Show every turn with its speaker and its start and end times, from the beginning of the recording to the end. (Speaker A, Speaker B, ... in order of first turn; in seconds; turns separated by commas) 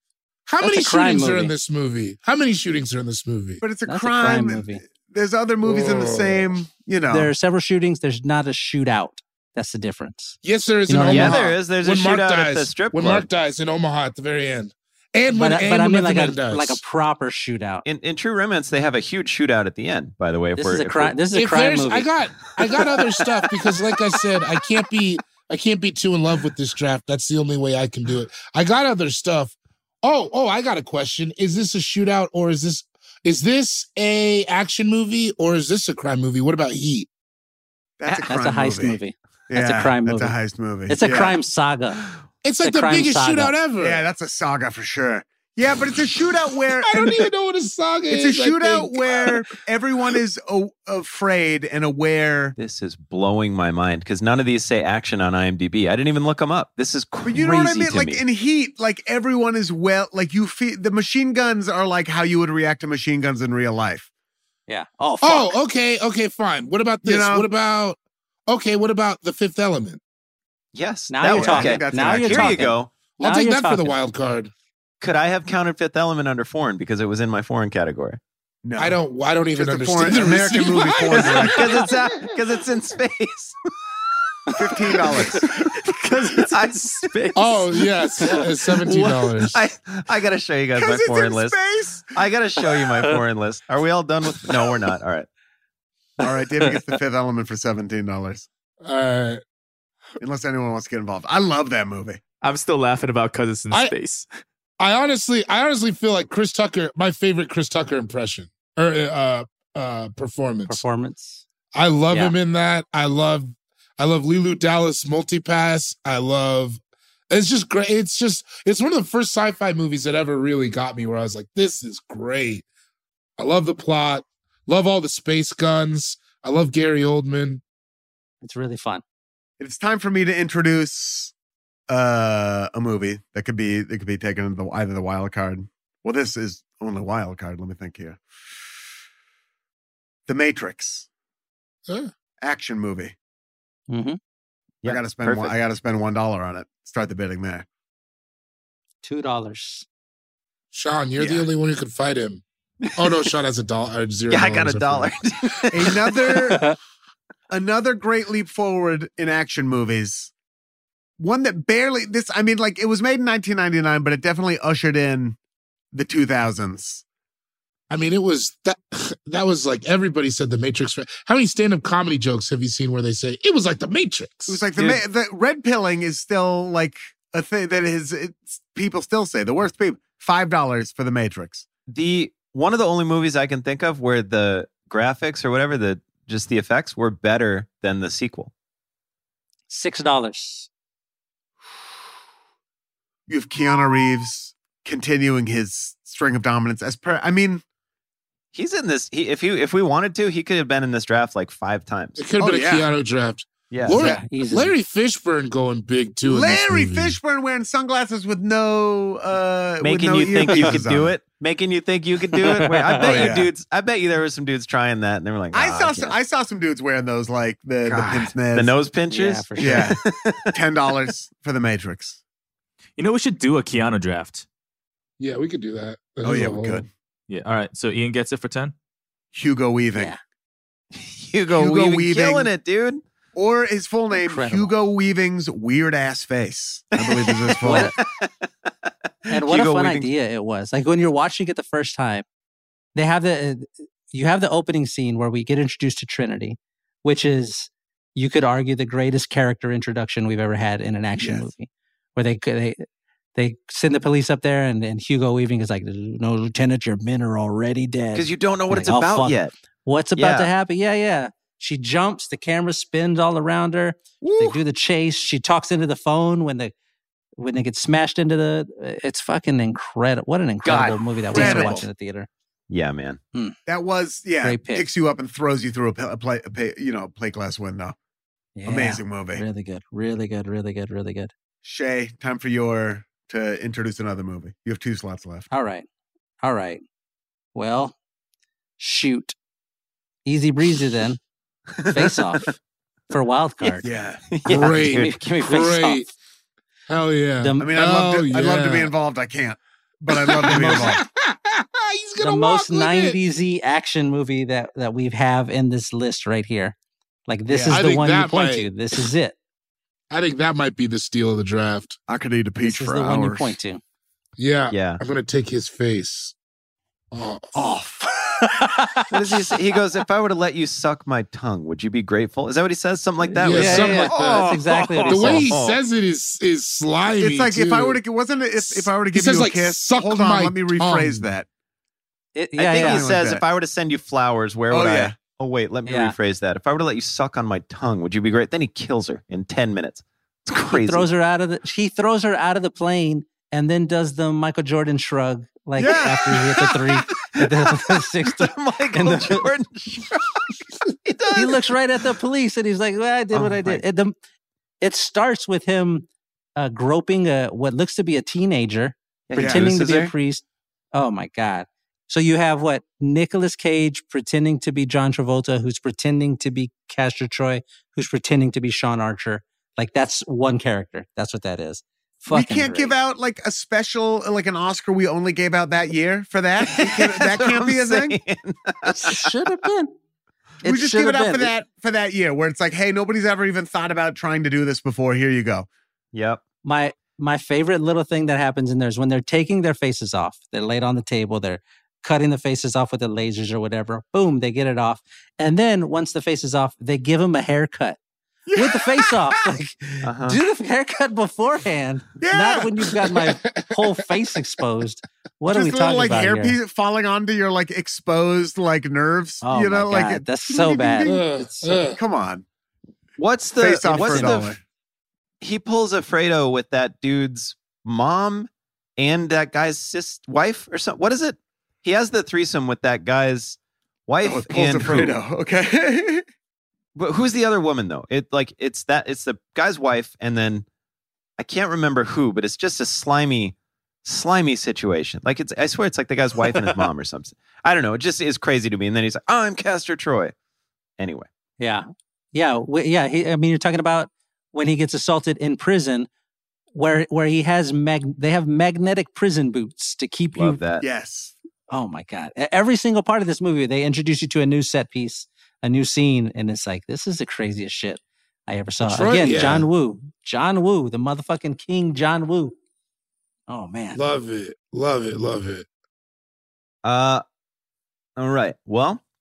Speaker A: 0.5-3.6, Speaker B: 0.6-1.5, Speaker C: 3.6-7.3, Speaker B: 3.9-4.8, Speaker A: 5.6-6.6, Speaker B: 7.1-10.4, Speaker A: 10.4-16.8, Speaker B: 10.9-11.4, Speaker D: 11.1-13.2, Speaker B: 15.3-17.8, Speaker D: 17.8-21.2, Speaker B: 20.6-22.1, Speaker A: 21.3-37.1, Speaker C: 38.0-41.4, Speaker B: 38.2-40.4, Speaker B: 40.9-42.0, Speaker A: 42.4-44.0, Speaker B: 42.6-43.5, Speaker C: 43.8-47.3, Speaker A: 46.8-49.4, Speaker C: 48.1-52.6, Speaker D: 52.6-58.2, Speaker C: 57.2-64.1, Speaker B: 64.7-65.5, Speaker A: 65.2-70.0, Speaker C: 67.0-67.5, Speaker D: 70.7-72.9, Speaker B: 71.1-73.9, Speaker C: 71.3-72.7, Speaker A: 73.2-74.5, Speaker D: 75.0-78.2, Speaker C: 78.6-79.0, Speaker A: 78.8-82.3, Speaker C: 79.5-81.9, Speaker D: 81.2-83.5, Speaker C: 84.5-85.5, Speaker D: 86.1-91.6, Speaker A: 87.3-89.6, Speaker C: 90.8-92.1, Speaker D: 92.1-95.3, Speaker C: 96.2-98.5, Speaker A: 98.8-99.4, Speaker C: 100.2-102.2, Speaker E: 102.4-104.2, Speaker A: 104.8-110.8, Speaker B: 110.7-111.4, Speaker A: 111.7-122.6, Speaker A: 123.4-127.6, Speaker B: 128.4-129.0, Speaker C: 129.6-131.3, Speaker C: 131.9-138.2, Speaker C: 140.3-141.1, Speaker C: 142.4-143.1, Speaker B: 143.9-144.2, Speaker D: 144.8-145.5, Speaker C: 144.8-147.7, Speaker B: 149.0-149.8, Speaker A: 150.7-152.4, Speaker C: 151.2-151.4, Speaker A: 152.9-155.1, Speaker D: 154.3-156.4, Speaker C: 155.7-156.6, Speaker B: 156.5-156.8, Speaker C: 157.5-160.3, Speaker C: 161.2-165.4, Speaker C: 165.9-167.0, Speaker A: 167.9-174.6, Speaker C: 174.5-181.7, Speaker D: 174.8-175.0, Speaker D: 181.9-188.5, Speaker B: 189.7-190.7, Speaker C: 193.3-197.6, Speaker D: 198.5-202.3, Speaker A: 202.2-207.2, Speaker C: 202.4-202.8, Speaker D: 203.7-204.0, Speaker B: 203.9-204.7, Speaker C: 206.2-211.2, Speaker D: 209.8-216.2, Speaker B: 212.3-213.3, Speaker C: 213.0-213.5, Speaker C: 215.5-218.7, Speaker A: 217.9-218.2, Speaker D: 218.5-220.6, Speaker B: 219.1-219.9, Speaker C: 219.6-220.0, Speaker C: 220.5-222.2, Speaker E: 223.0-224.4, Speaker A: 225.2-226.8, Speaker C: 226.2-226.9, Speaker E: 227.3-228.7, Speaker C: 229.3-230.1, Speaker D: 230.9-233.0, Speaker C: 231.5-232.5, Speaker C: 233.3-237.9, Speaker B: 234.1-234.7, Speaker D: 236.9-238.3, Speaker B: 237.6-237.9, Speaker D: 239.3-240.1, Speaker B: 239.3-242.2, Speaker B: 242.9-252.8, Speaker C: 251.2-251.5, Speaker B: 253.3-266.7, Speaker D: 258.1-259.5, Speaker D: 260.1-260.5, Speaker C: 264.2-264.6, Speaker B: 267.4-272.3, Speaker D: 270.6-271.7, Speaker C: 271.3-271.9, Speaker D: 272.7-273.2, Speaker C: 273.7-277.9, Speaker B: 274.4-274.9, Speaker B: 278.6-281.3, Speaker C: 278.6-279.4, Speaker C: 281.6-285.5, Speaker B: 285.5-285.9, Speaker B: 286.4-286.8, Speaker B: 287.5-287.9, Speaker B: 288.8-289.3, Speaker B: 290.2-291.2, Speaker B: 291.9-292.5, Speaker B: 293.1-293.9, Speaker D: 293.6-295.2, Speaker C: 293.8-294.2, Speaker A: 294.4-296.1, Speaker B: 294.8-296.0, Speaker A: 296.9-298.9, Speaker B: 297.4-297.7, Speaker C: 297.6-301.0, Speaker A: 300.1-303.2, Speaker B: 300.5-300.9, Speaker B: 302.2-306.8, Speaker B: 307.3-309.4, Speaker C: 307.5-307.8, Speaker A: 307.7-308.7, Speaker A: 310.1-312.0, Speaker C: 312.1-313.5, Speaker B: 312.6-313.8, Speaker A: 314.4-316.3, Speaker D: 314.7-315.0, Speaker A: 317.1-317.5, Speaker C: 317.5-318.3, Speaker B: 318.4-319.0, Speaker D: 319.1-325.8, Speaker B: 323.2-325.5, Speaker A: 323.4-324.4, Speaker A: 325.1-328.0, Speaker C: 327.2-331.5, Speaker A: 328.6-331.3, Speaker B: 332.3-333.1, Speaker D: 332.6-341.1, Speaker C: 332.8-333.4, Speaker C: 334.7-335.2, Speaker B: 335.9-336.1, Speaker B: 340.7-349.5, Speaker C: 345.8-346.5, Speaker D: 348.4-350.4, Speaker D: 351.0-351.6, Speaker B: 351.3-354.1, Speaker D: 353.3-353.8, Speaker B: 354.8-360.4, Speaker D: 359.3-360.1, Speaker C: 359.4-359.7, Speaker B: 360.9-372.9, Speaker C: 372.3-378.2, Speaker D: 376.6-379.3, Speaker B: 378.8-379.9, Speaker B: 380.6-381.5, Speaker C: 380.6-385.7, Speaker D: 386.1-386.4, Speaker B: 386.6-398.0, Speaker C: 398.5-399.3, Speaker B: 398.5-406.6, Speaker D: 400.0-400.4, Speaker C: 402.2-402.7, Speaker A: 403.1-404.4, Speaker C: 405.5-411.2, Speaker B: 409.4-411.7, Speaker A: 411.0-412.0, Speaker C: 411.8-412.4, Speaker D: 413.2-414.5, Speaker C: 413.6-414.6, Speaker B: 413.9-414.5, Speaker D: 415.4-425.2, Speaker C: 424.2-426.2, Speaker D: 426.9-430.6, Speaker D: 431.4-440.3, Speaker D: 441.0-441.3, Speaker B: 441.6-446.1, Speaker B: 446.7-450.6, Speaker D: 450.3-450.8, Speaker C: 450.8-451.3, Speaker B: 451.7-462.6, Speaker A: 458.8-459.7, Speaker B: 463.5-464.0, Speaker A: 463.9-465.7, Speaker D: 466.8-467.2, Speaker D: 468.2-469.0